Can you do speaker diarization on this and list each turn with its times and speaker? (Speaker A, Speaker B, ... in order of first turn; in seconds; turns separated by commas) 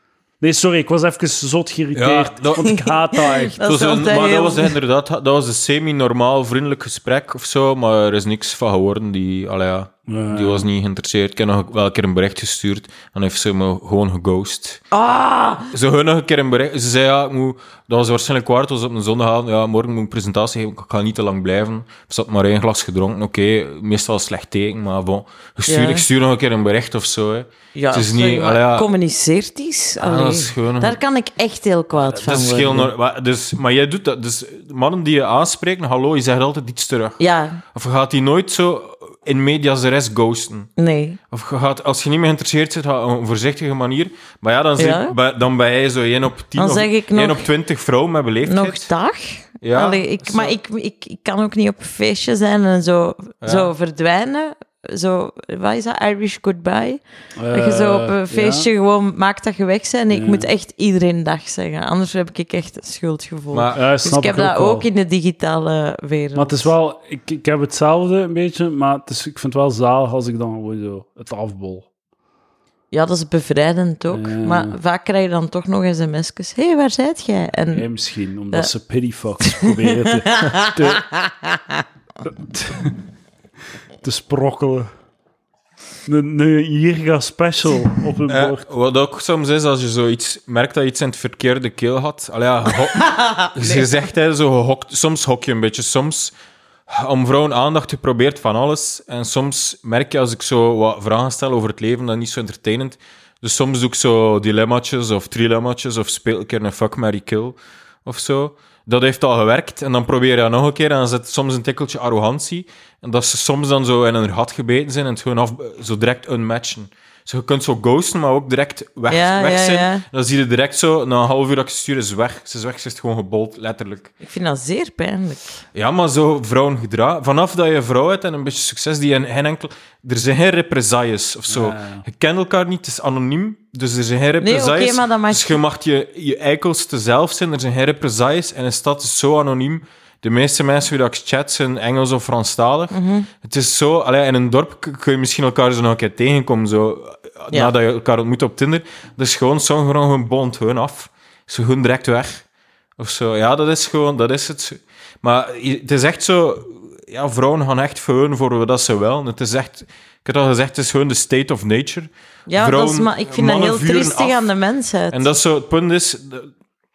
Speaker A: 0.4-3.6, Speaker B: 1.9-2.7, Speaker C: 2.6-4.7, Speaker B: 3.6-14.8, Speaker A: 10.1-10.7, Speaker C: 14.9-15.7, Speaker B: 15.7-28.9, Speaker C: 25.7-26.1, Speaker C: 27.8-32.9, Speaker B: 30.0-31.0, Speaker B: 32.1-37.2, Speaker C: 37.2-37.6, Speaker B: 37.7-40.7, Speaker C: 40.8-41.2, Speaker B: 41.3-48.9, Speaker C: 44.8-45.1, Speaker C: 46.6-47.5, Speaker C: 48.4-66.7, Speaker B: 49.6-50.5, Speaker B: 53.4-53.7, Speaker A: 57.4-58.7, Speaker A: 60.1-60.5, Speaker B: 63.5-63.8, Speaker A: 63.8-64.9, Speaker A: 66.3-71.9, Speaker C: 72.9-77.9, Speaker A: 74.1-74.8, Speaker A: 77.7-81.0, Speaker C: 79.4-81.8, Speaker A: 82.3-83.0, Speaker A: 84.0-84.9, Speaker A: 86.1-88.7, Speaker B: 88.3-96.3, Speaker C: 93.0-93.8, Speaker B: 96.9-124.1, Speaker C: 119.1-120.0, Speaker C: 124.2-125.6, Speaker B: 125.7-152.4, Speaker A: 131.5-132.1, Speaker C: 134.4-135.6, Speaker C: 142.9-143.3, Speaker B: 153.0-164.4, Speaker C: 162.5-165.3, Speaker B: 165.1-166.5